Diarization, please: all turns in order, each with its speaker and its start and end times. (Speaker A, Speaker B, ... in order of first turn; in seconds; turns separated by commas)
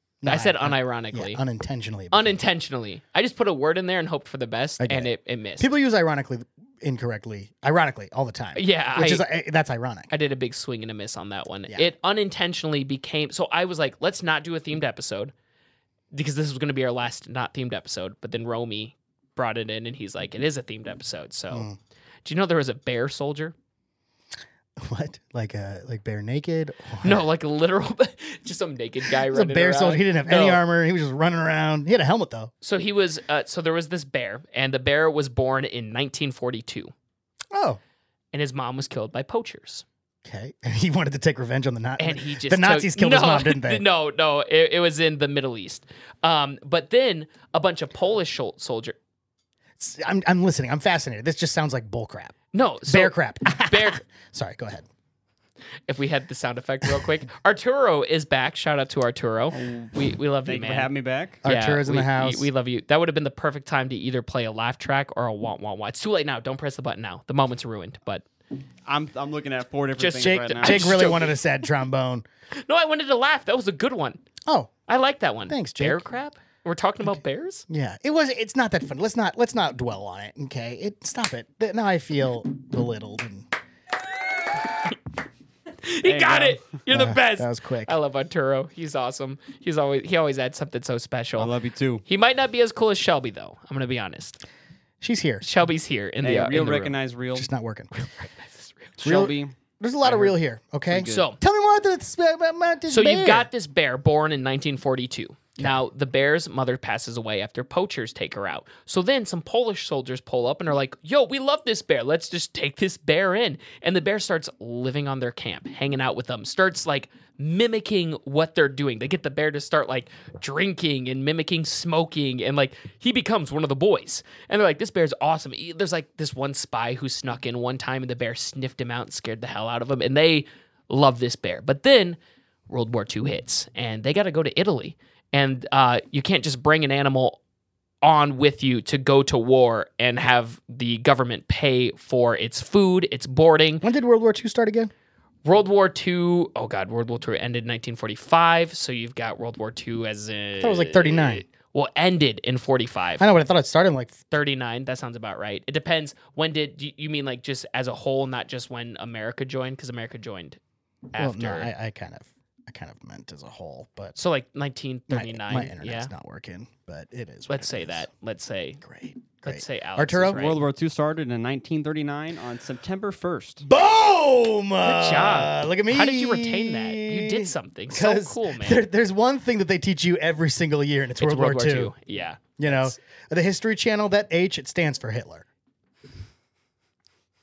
Speaker A: 0.2-2.4, Speaker B: 0.2-1.4, Speaker B: 2.1-5.7, Speaker A: 4.8-10.1, Speaker B: 8.5-9.2, Speaker B: 10.1-15.3, Speaker B: 16.1-21.6, Speaker A: 21.5-21.8, Speaker B: 22.2-23.5, Speaker A: 24.8-27.2, Speaker B: 27.0-30.6, Speaker A: 29.1-32.5, Speaker B: 32.6-36.9, Speaker A: 37.5-37.8, Speaker B: 38.3-39.8, Speaker A: 40.2-43.8, Speaker B: 42.0-49.0, Speaker A: 49.8-54.9, Speaker B: 52.5-54.0, Speaker B: 55.9-60.9, Speaker C: 59.5-61.4, Speaker A: 61.4-62.5, Speaker B: 61.4-68.2, Speaker C: 68.8-71.1, Speaker B: 70.0-71.4, Speaker A: 70.2-72.2, Speaker B: 72.5-74.2, Speaker A: 74.5-74.7, Speaker B: 74.9-77.6, Speaker A: 75.5-76.0, Speaker A: 77.7-83.5, Speaker B: 85.8-91.5, Speaker C: 86.0-86.6, Speaker A: 86.9-88.0, Speaker C: 91.4-92.0, Speaker B: 92.0-94.4, Speaker A: 95.0-95.4, Speaker B: 95.4-97.0, Speaker C: 96.2-97.5, Speaker A: 97.3-97.9, Speaker B: 98.0-98.9, Speaker C: 99.0-100.3, Speaker A: 99.0-103.5, Speaker C: 100.9-101.2, Speaker B: 101.0-101.4, Speaker B: 102.9-132.2, Speaker B: 132.7-137.4, Speaker B: 138.0-143.8, Speaker A: 143.8-144.9, Speaker B: 145.4-153.2, Speaker A: 150.6-151.4, Speaker A: 153.2-154.2, Speaker B: 154.3-160.6, Speaker B: 161.1-161.7, Speaker A: 161.2-164.2, Speaker B: 164.2-166.1, Speaker A: 165.1-168.1, Speaker B: 167.5-168.8, Speaker A: 168.8-170.4, Speaker B: 169.4-170.6, Speaker C: 170.3-173.6, Speaker A: 173.6-181.9, Speaker B: 174.8-178.8, Speaker B: 181.2-182.9, Speaker A: 182.6-185.4